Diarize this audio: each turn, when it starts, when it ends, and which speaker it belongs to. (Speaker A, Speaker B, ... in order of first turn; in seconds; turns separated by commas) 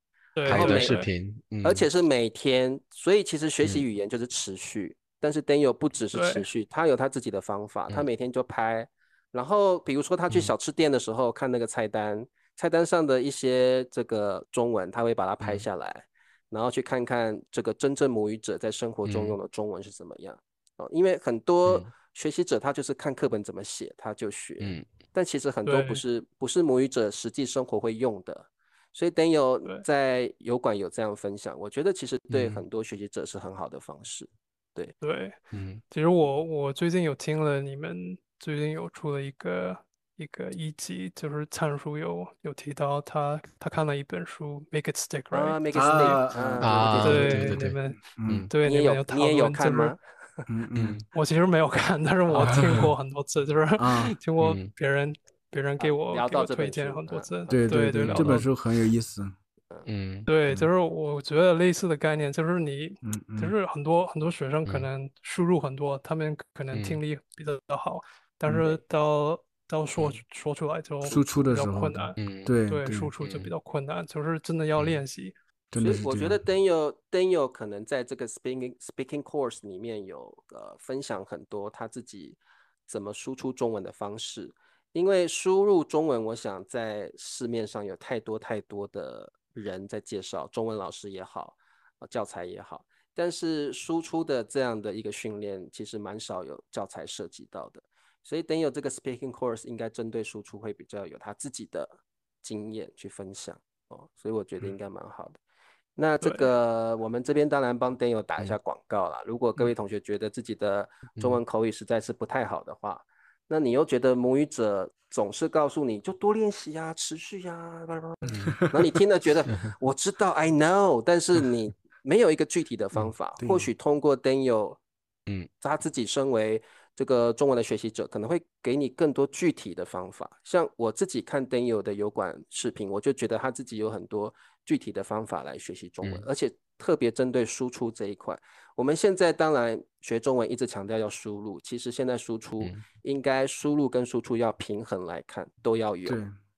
Speaker A: 0.3-1.1, Speaker B: 0.4-1.0, Speaker C: 0.5-1.9, Speaker B: 1.6-34.9, Speaker A: 6.1-6.5, Speaker C: 19.0-19.4, Speaker C: 24.6-24.9, Speaker A: 25.6-26.0, Speaker C: 32.3-32.6, Speaker A: 35.0-35.4, Speaker C: 35.5-35.8, Speaker A: 35.9-46.2, Speaker B: 45.3-47.5, Speaker D: 45.7-47.6, Speaker C: 46.6-47.8, Speaker A: 47.0-49.9, Speaker D: 48.2-48.5, Speaker B: 48.6-50.5, Speaker D: 50.5-51.0, Speaker C: 50.7-51.0, Speaker A: 51.1-58.5, Speaker D: 52.3-52.9, Speaker D: 53.8-54.1, Speaker C: 54.4-54.7, Speaker B: 55.8-57.8, Speaker D: 57.5-59.3, Speaker C: 58.0-58.3, Speaker C: 59.9-60.3, Speaker A: 60.3-75.3, Speaker D: 63.0-63.5, Speaker C: 66.7-67.0, Speaker D: 71.0-73.1, Speaker C: 72.2-72.5, Speaker C: 73.2-73.5, Speaker D: 75.7-76.4, Speaker B: 75.8-105.4, Speaker B: 106.0-124.8, Speaker A: 106.2-106.5, Speaker C: 111.2-111.4, Speaker C: 118.3-118.6, Speaker D: 118.3-118.8, Speaker D: 123.4-123.7, Speaker B: 125.6-146.2, Speaker D: 146.0-146.3